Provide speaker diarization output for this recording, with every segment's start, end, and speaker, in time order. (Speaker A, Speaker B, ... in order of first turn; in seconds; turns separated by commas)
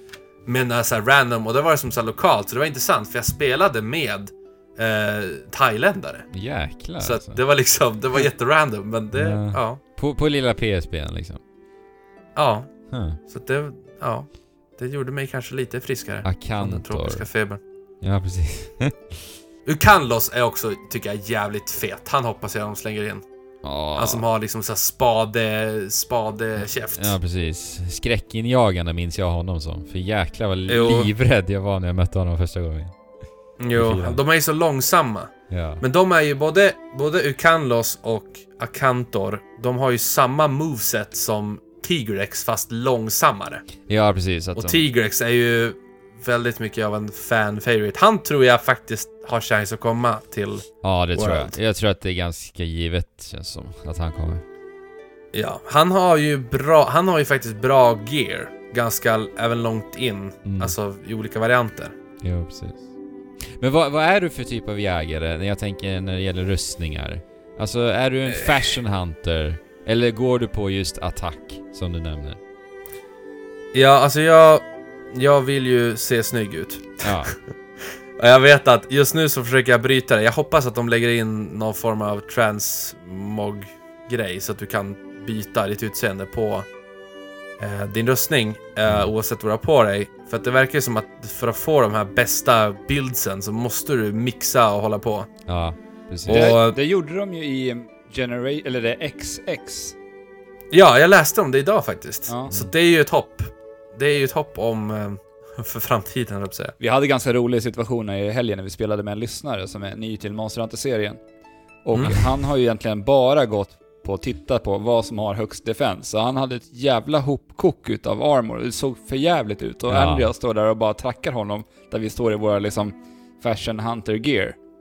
Speaker A: 0.5-6.3, Speaker B: 6.3-7.4, Speaker A: 7.0-9.8, Speaker B: 9.1-11.4, Speaker A: 12.3-17.6, Speaker B: 12.9-13.2, Speaker B: 16.2-17.3, Speaker B: 18.0-19.2, Speaker A: 19.6-23.2, Speaker B: 23.6-24.2, Speaker A: 23.9-27.2, Speaker B: 26.9-33.0, Speaker A: 30.7-31.1, Speaker A: 33.6-43.7, Speaker B: 33.7-34.2, Speaker B: 35.5-35.8, Speaker B: 43.9-44.8, Speaker A: 44.5-51.5, Speaker B: 50.8-54.4, Speaker A: 55.3-61.9, Speaker B: 60.4-60.8, Speaker B: 62.2-62.9, Speaker B: 63.5-72.4, Speaker A: 68.4-68.7, Speaker A: 73.7-77.3, Speaker B: 77.0-77.3, Speaker A: 78.2-86.7, Speaker A: 87.6-95.3, Speaker B: 88.8-89.1, Speaker B: 95.5-96.6, Speaker A: 96.2-96.8, Speaker C: 96.3-100.0, Speaker A: 100.7-106.7, Speaker C: 106.8-111.2, Speaker C: 111.8-124.6, Speaker B: 119.9-120.3